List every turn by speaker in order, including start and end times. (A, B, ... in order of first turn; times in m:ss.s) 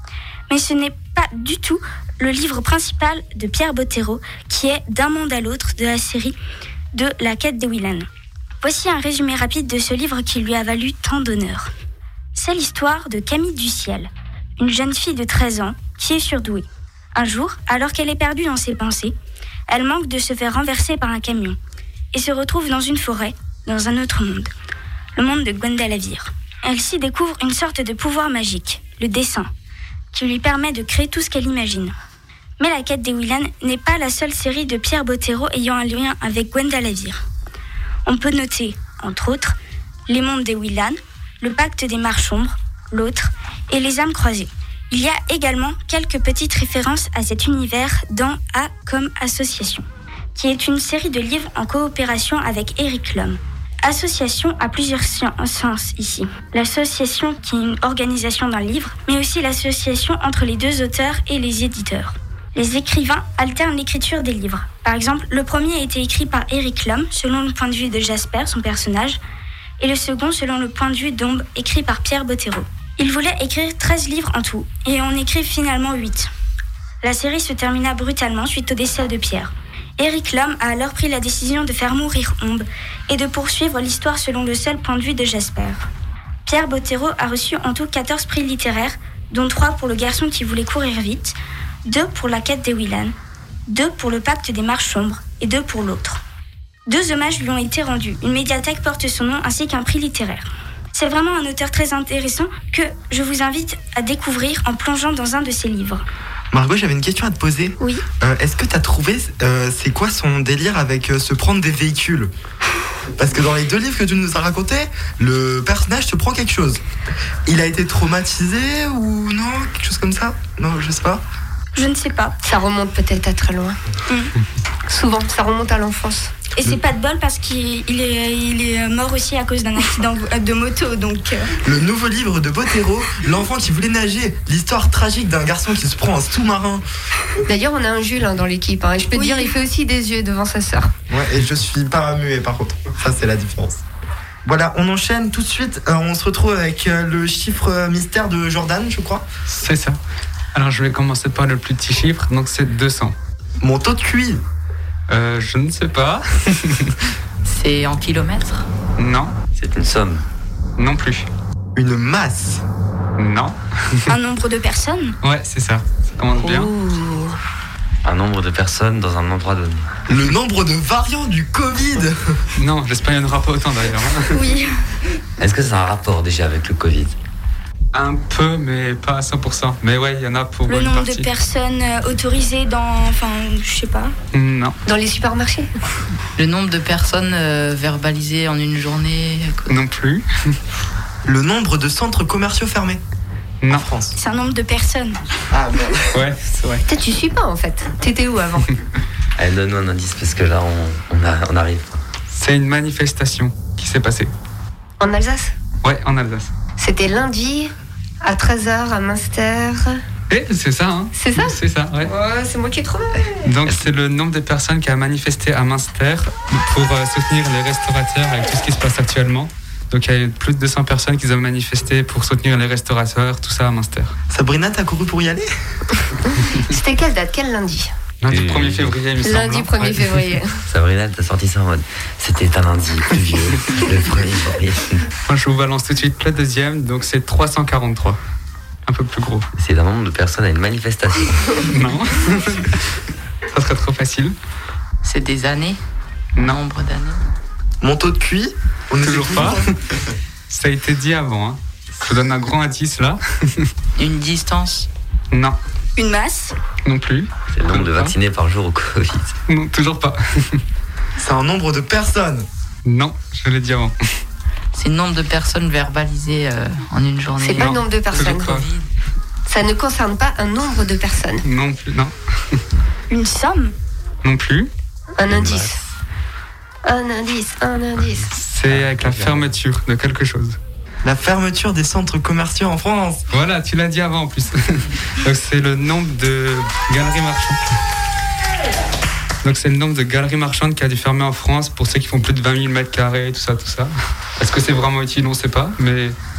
0:00.5-0:06.4 A
0:06.9-0:08.1 A
0:08.6-0:11.7 A
0:12.4-0:19.1 A
0:19.7-0:21.6 A
0:22.1-0:24.5 A
0:25.2-0:29.5 A
0:30.1-0:32.0 A
0:32.6-0:37.2 A
0:38.1-0:39.6 A
0:40.1-0:49.8 A
0:50.4-1:09.2 A
1:09.8-1:16.3 A
1:17.0-1:25.9 A
1:26.5-1:33.2 A
1:33.7-1:36.2 A
1:36.9-1:46.0 A
1:46.5-1:52.3 B
1:53.2-1:56.8 B
1:57.5-2:01.2 B
2:01.8-2:02.4 A
2:02.4-2:03.8 C
2:04.9-2:06.4 C
2:06.6-2:11.6 A
2:11.6-2:16.8 B
2:17.5-2:20.9 C
2:19.2-2:19.5 A
2:21.1-2:23.8 B
2:24.4-2:29.2 B
2:29.5-2:30.0 D
2:30.5-2:33.2 D
2:33.6-2:34.4 B
2:35.1-2:36.9 D
2:37.4-2:38.7 E
2:39.0-2:39.3 D
2:39.6-2:40.2 F
2:40.8-2:41.3 D
2:41.8-2:42.6 B
2:43.2-2:43.6 D
2:44.1-2:45.2 A
2:45.2-2:46.7 D
2:46.4-2:47.4 C
2:48.0-2:49.9 F
2:50.1-2:52.5 B
2:52.6-2:54.4 D
2:54.3-2:54.8 A
2:55.4-2:57.2 F
2:57.9-3:01.3 D
3:00.7-3:04.1 A
3:04.3-3:04.8 D
3:04.9-3:05.7 C
3:06.4-3:09.8 E
3:09.7-3:10.2 D
3:11.2-3:13.0 B
3:13.6-3:13.9 D
3:13.7-3:14.1 B
3:14.2-3:15.2 A
3:15.5-3:16.1 B
3:16.1-3:16.8 D
3:16.9-3:18.7 C
3:19.4-3:21.8 F
3:22.3-3:24.3 D
3:25.0-3:25.5 C
3:25.8-3:26.5 D
3:26.8-3:27.7 C
3:28.2-3:30.0 C
3:30.3-3:32.1 D
3:31.1-3:33.4 C
3:33.4-3:44.2 D
3:44.3-3:45.5 B
3:46.7-3:47.9 C
3:48.2-3:50.4 D
3:48.3-3:49.0 F
3:49.2-3:50.5 C
3:50.7-3:55.0 F
3:55.3-3:58.2 D
3:58.9-3:59.5 D
3:59.6-4:01.6 F
4:01.7-4:02.8 D
4:03.5-4:04.4 D
4:05.0-4:05.8 E
4:06.4-4:07.2 E
4:07.8-4:09.7 B
4:09.0-4:09.8 D
4:10.5-4:13.7 D
4:14.0-4:14.9 E
4:15.3-4:15.6 D
4:16.0-4:16.6 A
4:16.8-4:18.1 D
4:17.5-4:19.3 F
4:19.5-4:20.6 D
4:21.2-4:22.5 B
4:22.8-4:24.0 D
4:24.8-4:28.9 E
4:27.4-4:28.6 C
4:27.6-4:28.6 D
4:29.5-4:31.4 C
4:31.4-4:32.1 D
4:33.1-4:33.7 A
4:34.2-4:34.7 D
4:35.2-4:35.8 C
4:35.3-4:35.7 F
4:36.9-4:38.3 C
4:38.4-4:40.6 D
4:38.7-4:39.5 F
4:41.0-4:43.2 B
4:43.3-4:47.6 D
4:49.4-4:56.2 D